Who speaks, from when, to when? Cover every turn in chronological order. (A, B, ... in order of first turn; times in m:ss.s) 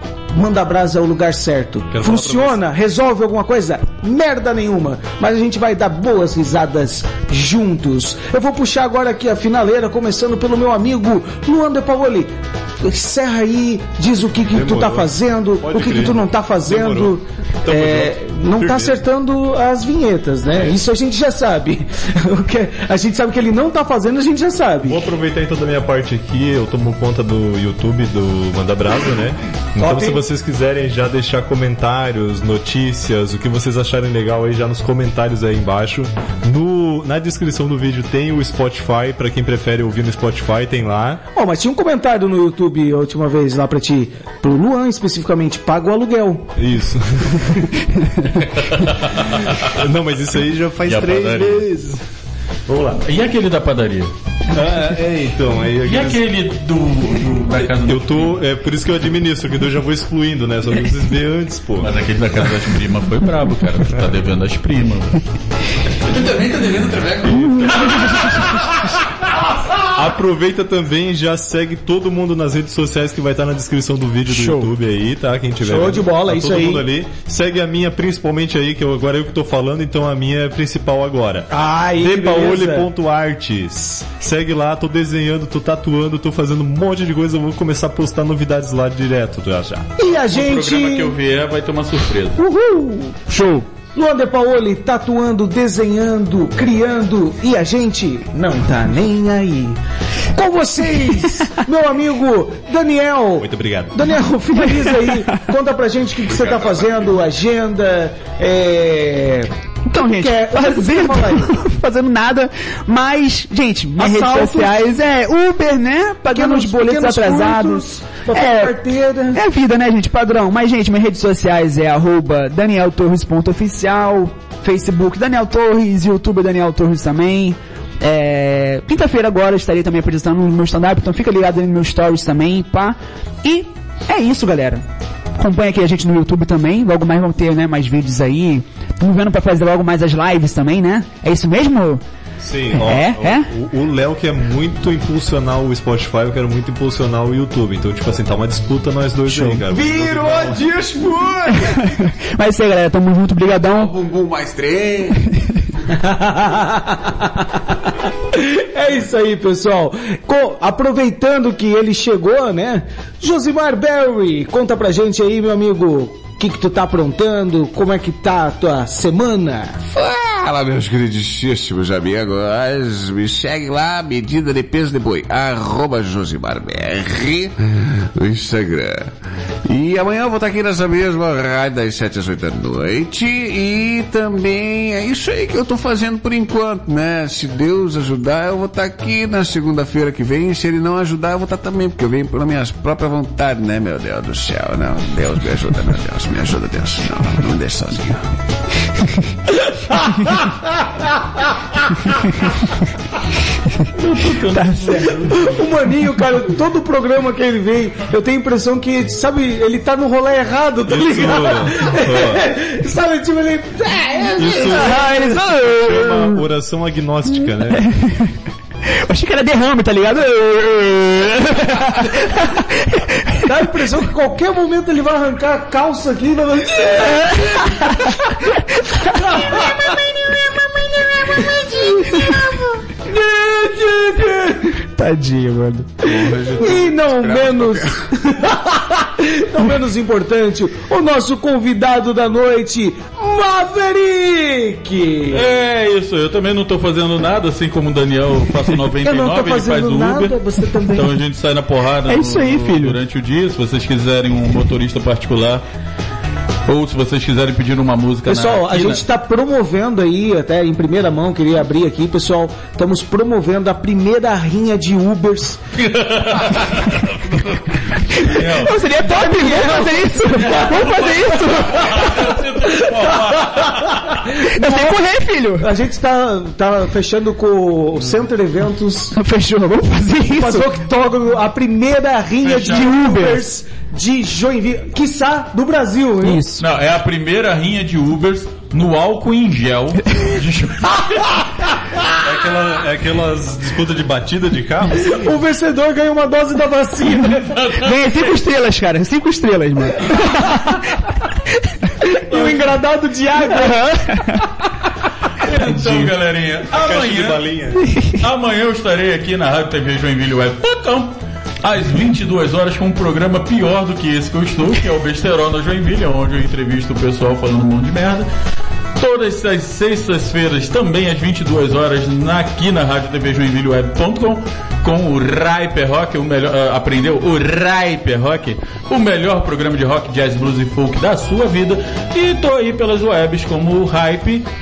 0:00.3-0:25.1 A
0:01.9-0:02.6 B
0:14.5-0:15.1 B
0:15.6-0:19.0 B
0:24.9-0:41.2 B
0:29.8-0:30.2 A
0:41.3-0:46.5 A
0:46.6-0:47.7 B
0:48.3-0:49.7 C
0:49.6-0:52.0 B
0:50.9-0:51.7 C
0:52.7-0:53.0 B
0:53.0-0:54.1 C
0:54.5-0:56.2 B
0:55.8-0:58.4 C
0:57.7-1:01.9 B
1:01.8-1:05.2 C
1:06.0-1:08.3 D
1:07.4-1:08.2 B
1:10.0-1:29.9 B
1:15.6-1:16.8 A
1:21.5-1:22.9 A
1:30.0-1:31.2 A
1:30.1-1:32.4 C
1:32.4-1:33.3 A
1:33.3-1:33.7 E
1:33.9-1:39.8 A
1:40.3-1:51.6 A
1:43.4-1:44.0 B
1:46.4-1:46.8 D
1:49.9-1:58.7 E
1:54.0-1:54.9 A
1:56.3-1:59.4 A
1:59.3-2:14.9 E
2:15.4-2:22.0 E
2:22.4-2:30.6 B
2:22.7-2:23.5 E
2:29.7-2:32.0 D
2:31.5-2:33.9 E
2:33.5-2:35.2 D
2:36.0-2:37.4 A
2:38.3-2:49.8 A
2:49.9-3:18.3 D
3:24.0-3:25.7 C
3:24.6-3:25.0 E
3:25.3-3:35.3 A
3:30.9-3:32.4 B
3:34.4-3:37.9 B
3:34.7-3:36.4 E
3:37.8-3:38.4 E
3:38.9-3:43.4 E
3:43.4-3:48.1 A
3:47.3-3:49.3 E
3:49.1-3:53.0 A
3:51.9-3:52.3 E
3:53.1-3:56.0 E
3:53.7-3:54.8 A
3:56.0-3:58.0 D
3:56.3-4:05.5 A
4:05.3-4:10.4 C
4:08.9-4:11.2 A
4:10.9-4:15.6 C
4:12.1-4:13.0 E
4:16.7-4:19.0 C
4:18.2-4:25.6 A
4:25.8-4:34.1 C
4:28.2-4:32.4 E
4:29.4-4:29.7 A
4:34.1-4:39.2 A
4:34.4-4:35.7 E
4:39.2-4:40.7 E
4:40.3-4:46.4 A
4:42.4-4:42.9 C
4:42.6-4:43.4 E
4:46.2-4:46.6 E
4:46.6-4:51.4 C
4:52.2-4:55.4 B
4:55.1-4:57.6 A
4:57.5-4:58.4 C
4:57.8-5:01.0 E
5:02.3-5:03.9 A
5:02.3-5:02.6 E
5:03.3-5:04.5 E
5:05.4-5:07.6 C
5:06.7-5:07.9 B
5:08.1-5:18.3 C
5:19.0-5:34.5 C